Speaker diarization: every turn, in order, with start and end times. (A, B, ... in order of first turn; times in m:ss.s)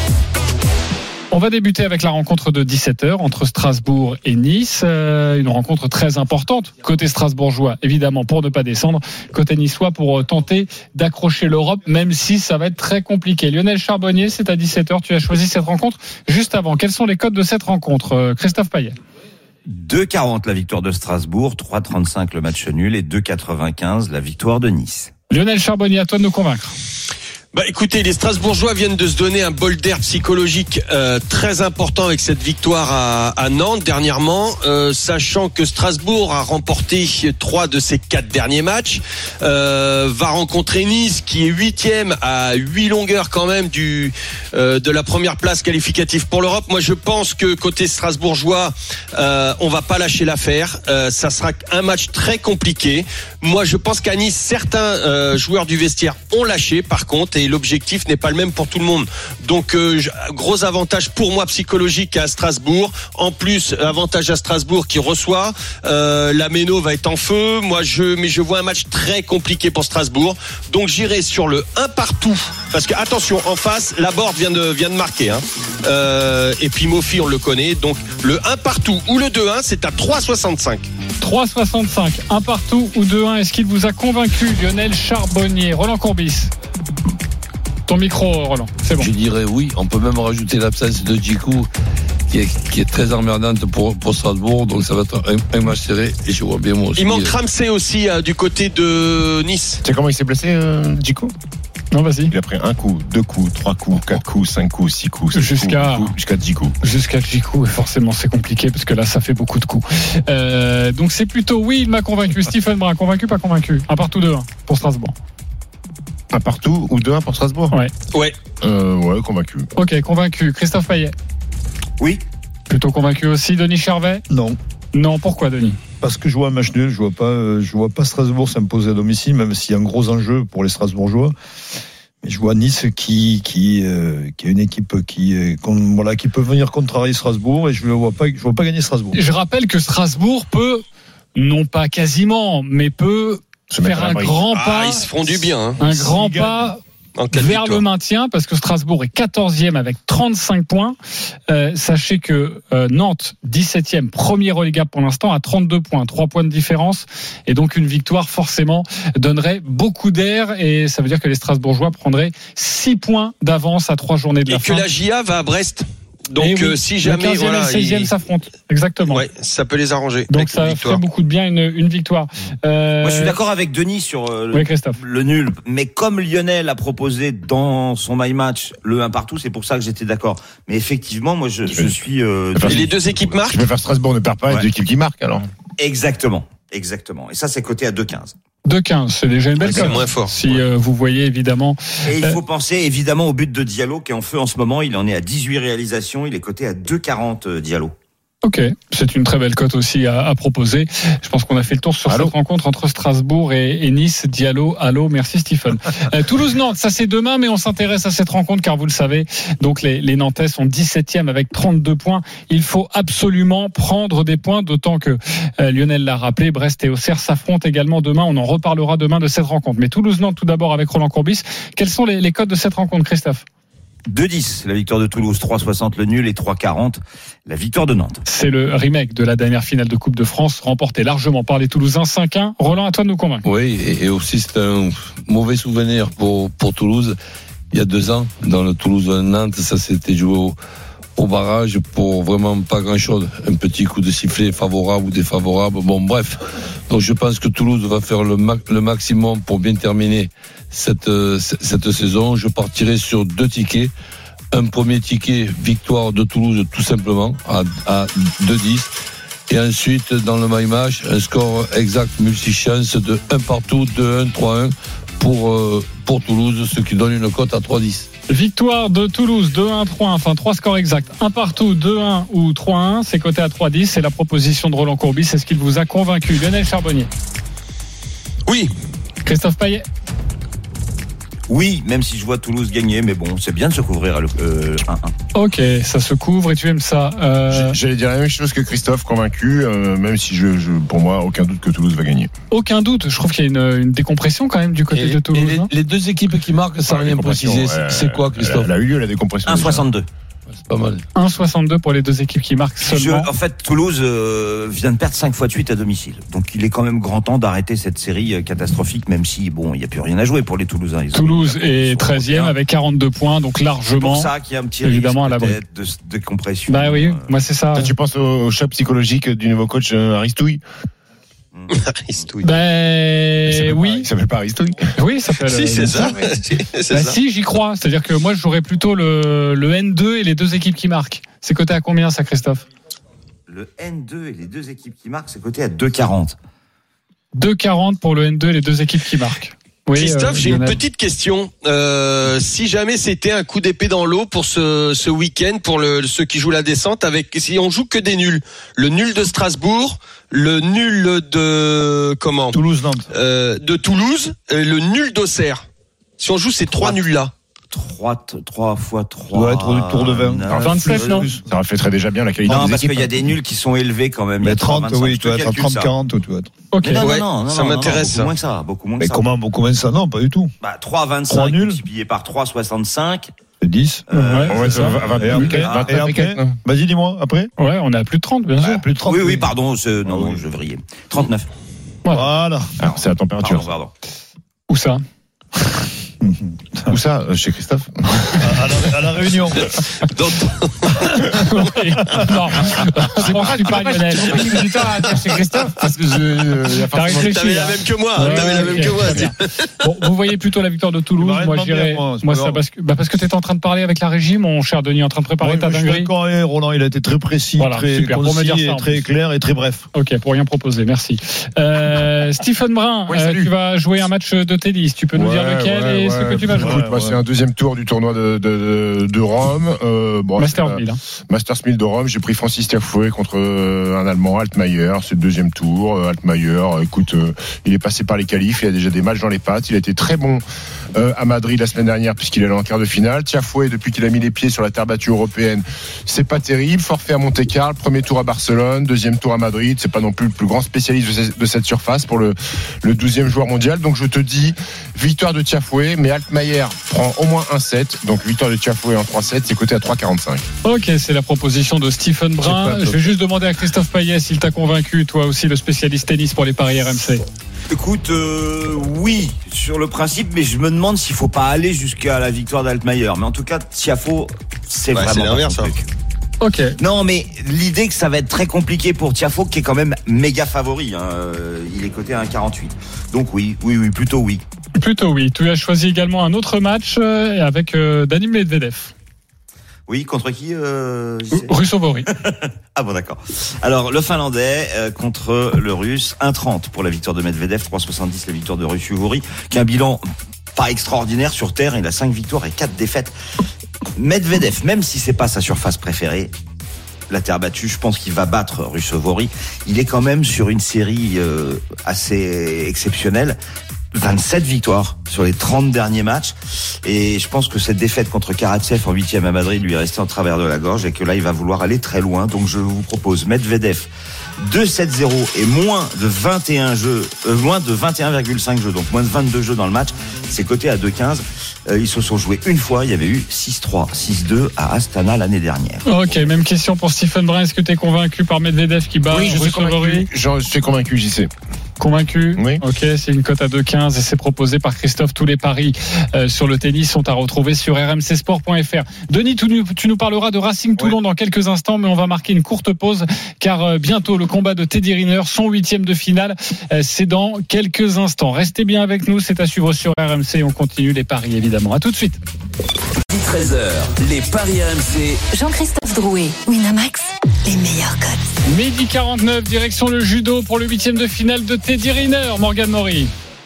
0:01.3-0:19.0 A
0:19.7-0:25.1 B
0:25.3-0:26.7 A
0:27.5-1:20.9 C
1:21.2-1:26.5 A
1:27.9-1:29.1 A
1:29.0-1:31.7 D
1:32.3-1:37.4 D
1:37.0-1:39.8 C
1:39.8-1:41.3 E
1:41.9-1:42.3 A
1:42.3-1:46.8 E
1:45.3-1:46.1 A
1:46.8-1:55.1 A
1:56.3-1:57.8 E
1:58.6-1:59.7 E
1:59.8-2:01.2 A
2:02.0-2:02.2 B
2:02.7-2:04.2 A
2:04.3-2:04.6 F
2:04.9-2:05.8 A
2:06.0-2:11.4 F
2:12.2-2:19.2 F
2:19.1-2:20.8 A
2:21.4-2:26.8 A
2:23.7-2:24.4 E
2:24.5-2:25.8 C
2:25.8-2:26.7 F
2:27.2-2:27.8 C
2:27.3-2:31.0 A
2:31.5-2:44.9 A
2:44.5-2:48.1 C
2:46.4-2:49.2 A
2:49.1-2:51.0 C
2:50.3-2:53.4 A
2:53.0-3:03.4 B
2:54.5-2:55.0 A
3:01.7-3:02.0 E
3:02.5-3:05.5 E
3:02.7-3:03.6 C
3:05.8-3:08.3 B
3:08.7-3:12.4 A
3:09.6-3:10.6 C
3:09.7-3:10.0 E
3:12.1-3:18.0 B
3:18.4-3:43.4 A
3:22.1-3:22.3 E
3:44.1-3:48.2 B
3:48.3-3:53.4 A
3:53.4-3:57.2 D
3:57.7-4:00.6 D
4:01.2-4:13.9 D
4:14.5-4:18.9 D
4:19.5-4:28.1 D
4:28.3-4:37.1 A
4:38.5-4:38.7 C
4:39.2-4:39.8 A
4:41.5-4:45.1 B
4:45.3-4:47.8 A
4:47.5-4:52.3 E
4:52.5-4:55.7 A
4:54.9-4:58.7 D
4:56.9-4:59.9 E
4:59.5-5:00.1 B
5:00.6-5:01.0 D
5:01.2-5:03.3 A
5:02.8-5:12.6 B
5:11.1-5:14.3 A
5:13.9-5:17.3 B
5:14.8-5:15.6 A
5:16.7-5:17.9 A
5:17.7-5:20.6 E
5:21.5-5:22.6 B
5:21.7-5:22.3 C
5:22.4-5:24.1 A
5:23.4-5:24.9 E
5:25.0-5:26.1 A
5:25.5-5:27.2 C
5:26.9-5:32.6 A
5:33.5-5:36.4 B
5:37.4-5:40.8 A
5:39.9-5:52.6 C
5:52.5-5:53.1 F
5:53.1-5:55.6 C
5:56.2-5:57.3 C
5:56.7-5:57.0 B
5:57.7-6:01.2 B
5:59.3-6:01.4 F
6:00.5-6:03.3 E
6:00.6-6:01.3 A
6:02.5-6:05.9 B
6:04.4-6:06.5 F
6:06.7-6:07.1 A
6:06.8-6:09.2 B
6:07.0-6:08.3 C
6:09.0-6:10.5 F
6:10.6-6:13.3 B
6:11.3-6:11.8 F
6:13.6-6:14.1 F
6:14.1-6:16.0 B
6:14.1-6:15.6 A
6:14.5-6:16.6 E
6:15.2-6:17.5 F
6:17.6-6:18.8 A
6:18.6-6:19.5 F
6:18.6-6:21.5 B
6:20.0-6:20.5 F
6:22.1-6:22.8 F
6:22.8-6:23.9 B
6:22.8-6:23.7 E
6:24.7-6:25.0 A
6:26.2-6:26.9 F
6:26.9-6:28.6 E
6:28.4-6:29.7 F
6:30.0-6:31.3 C
6:31.4-6:34.5 A
6:33.2-6:37.5 E
6:36.9-6:46.1 A
6:37.1-6:39.3 C
6:38.2-6:39.3 E
6:41.2-6:42.6 F
6:45.4-6:49.9 F
6:47.6-6:48.9 A
6:49.9-6:56.8 A
6:53.1-6:53.5 E
6:55.1-7:10.4 E
6:56.5-6:57.2 F
7:00.4-7:01.0 A
7:11.0-7:30.4 E
7:30.6-7:37.2 A
7:32.4-7:33.0 D
7:37.7-7:45.8 B
7:44.9-7:45.7 C
7:46.4-7:46.8 A
7:46.8-7:54.4 B
7:54.8-7:58.9 A
7:59.9-8:10.0 B
8:01.3-8:02.1 A
8:10.6-8:13.1 B
8:14.0-8:16.3 B
8:17.1-8:23.4 B
8:23.9-8:46.4 B
8:45.8-8:50.1 A
8:49.1-8:51.3 E
8:51.8-9:12.2 A
8:52.4-8:52.6 E
9:13.1-9:15.2 G
9:15.3-9:18.3 H
9:18.5-9:23.1 A